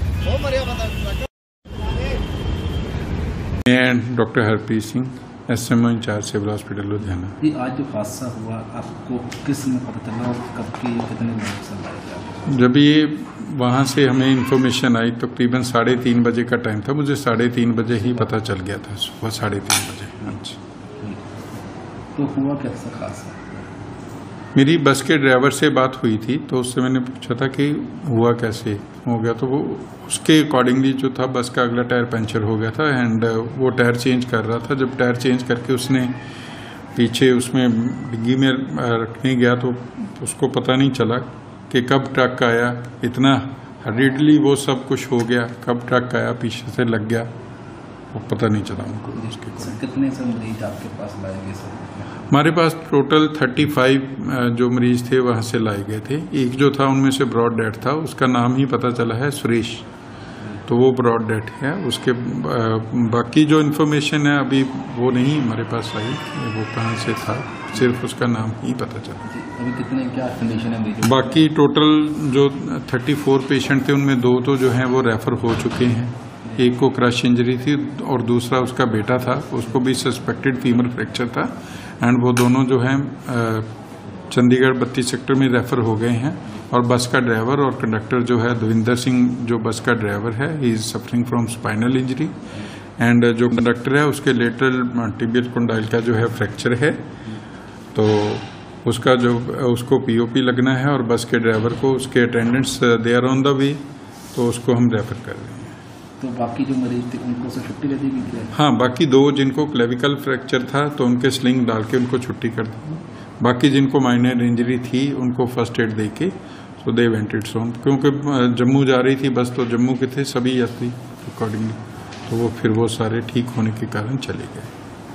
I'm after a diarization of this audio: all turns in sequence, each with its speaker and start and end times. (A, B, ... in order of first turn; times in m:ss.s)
0:03.6-0:07.4 A
0:07.4-0:12.5 B
0:12.5-0:20.6 A
0:21.0-0:23.8 B
0:24.5-0:36.2 A
0:36.9-0:47.3 A
0:48.1-0:49.8 A
0:49.2-0:52.2 B
0:52.3-0:59.9 A
1:00.6-1:09.2 A
1:09.2-1:11.4 B
1:11.0-1:23.7 A
1:24.3-1:32.4 A
1:33.0-1:37.0 A
1:37.9-1:43.8 A
1:44.3-1:45.8 A
1:46.2-1:48.6 B
1:48.5-2:04.7 A